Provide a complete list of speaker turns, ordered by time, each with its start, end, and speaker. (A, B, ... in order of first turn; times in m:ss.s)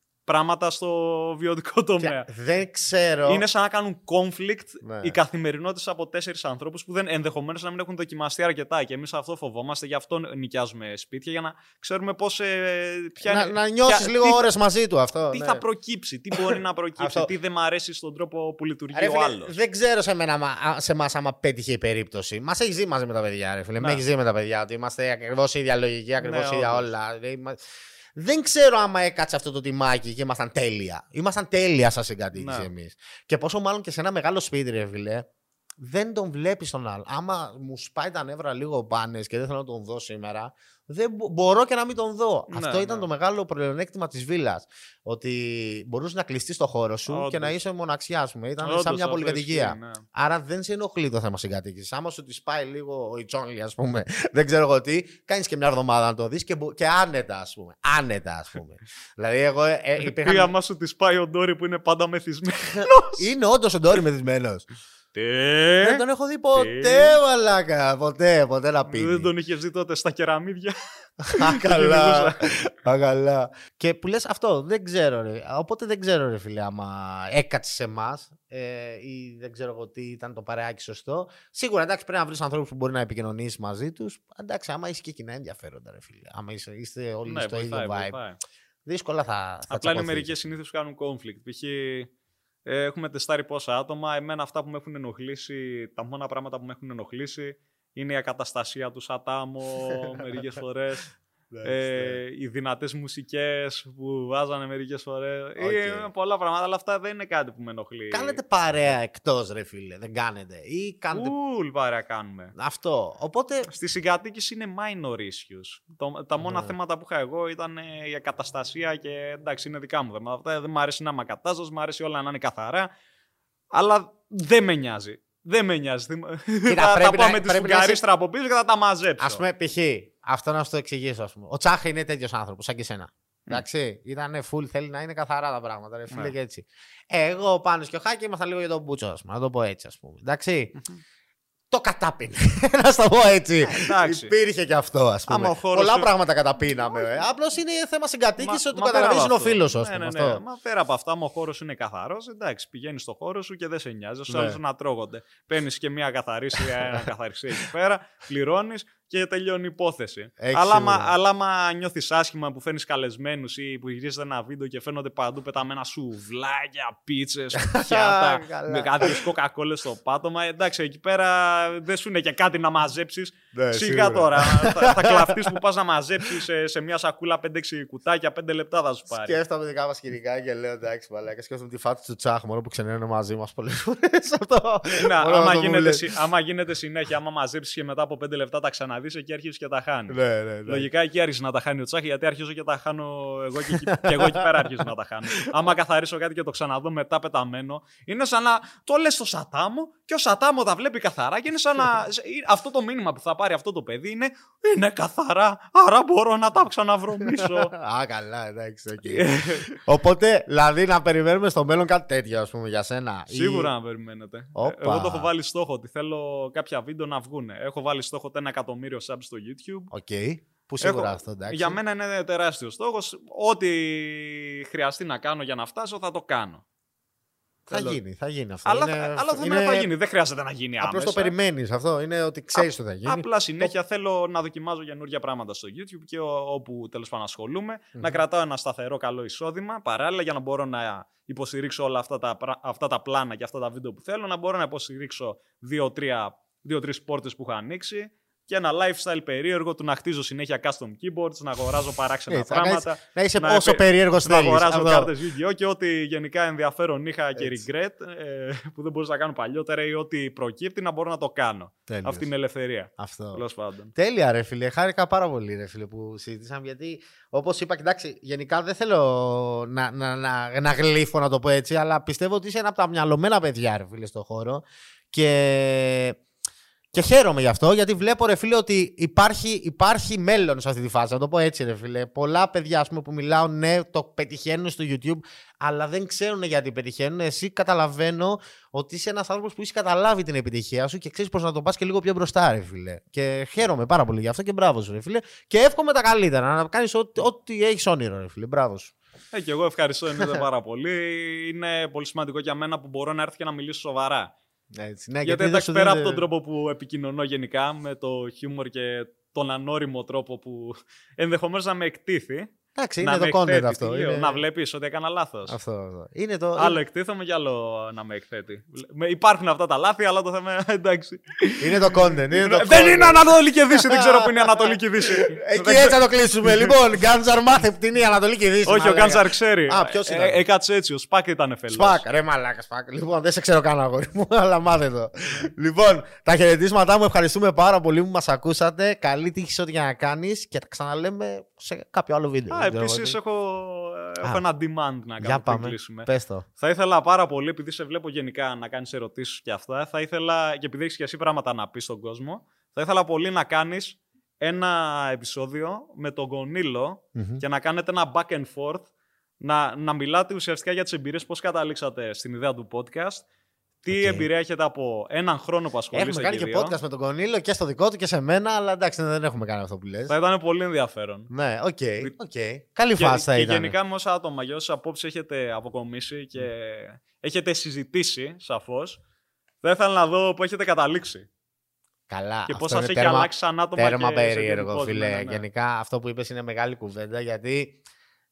0:00.3-0:02.3 A
0:02.0-0:03.4 B
0:03.3-0:14.5 A
0:04.8-0:05.2 B
0:13.2-0:15.6 B
0:15.3-0:19.6 A
0:16.3-0:17.3 B
0:18.9-0:27.6 B
0:26.2-0:26.9 A
0:28.2-0:35.2 B
0:32.4-0:32.7 A
0:35.8-1:00.5 B
0:42.5-0:43.1 A
0:47.1-0:47.6 A
0:48.6-0:50.0 A
1:00.2-1:03.2 A
1:02.8-1:04.6 B
1:05.1-1:06.0 A
1:05.8-1:09.3 B
1:06.5-1:07.2 A
1:08.9-1:10.8 A
1:11.2-1:28.2 B
1:11.3-1:12.5 A
1:27.2-1:28.4 A
1:28.9-1:30.3 B
1:29.7-1:32.1 A
1:32.6-1:41.1 A
1:40.0-1:40.5 B
1:41.5-1:42.2 B
1:41.6-1:48.4 A
1:45.6-1:46.1 B
1:48.1-1:51.3 B
1:51.1-1:52.5 A
1:52.6-1:53.7 B
1:53.7-2:02.9 A
1:56.4-1:56.7 B
2:03.7-2:09.4 A
2:06.7-2:08.0 B
2:09.2-2:20.8 B
2:21.7-2:30.4 B
2:23.6-2:24.3 A
2:25.3-2:26.1 A
2:28.4-2:59.4 A
2:34.3-2:34.6 B
2:40.4-2:41.1 B
2:47.6-2:49.2 B
2:53.5-2:55.5 B
2:59.1-3:06.1 B
3:05.0-3:27.7 A
3:10.1-3:10.9 B
3:13.7-3:14.4 B
3:27.2-3:33.7 B
3:29.0-3:29.7 A
3:33.3-3:39.9 A
3:34.5-3:35.3 B
3:39.9-3:41.8 B
3:40.8-3:46.6 A
3:47.7-3:49.9 B
3:47.7-3:48.0 A
3:48.6-3:51.3 A
3:50.8-3:53.7 B
3:52.6-4:23.9 A
3:57.9-3:58.2 B
4:12.3-4:15.1 B
4:17.4-4:17.6 B
4:21.9-4:22.3 B
4:23.0-4:23.4 B
4:23.9-4:36.2 B
4:36.9-4:58.9 B
4:59.3-5:04.3 A
5:04.8-5:06.2 B
5:05.2-5:12.5 A
5:12.8-5:14.4 B
5:13.0-5:15.6 A
5:15.5-5:16.8 B
5:16.6-5:26.8 A
5:21.6-5:30.4 B
5:28.6-5:32.0 A
5:31.7-5:43.2 B
5:42.5-5:58.9 A
5:45.2-5:46.5 B
5:57.2-5:57.4 B
5:59.4-6:03.2 A
6:03.8-6:06.8 A
6:03.9-6:04.3 B
6:05.9-6:10.2 B
6:10.1-6:11.3 A
6:11.3-6:13.8 B
6:13.0-6:19.0 A
6:19.6-6:21.3 A
6:22.1-6:27.8 B
6:22.5-6:25.5 A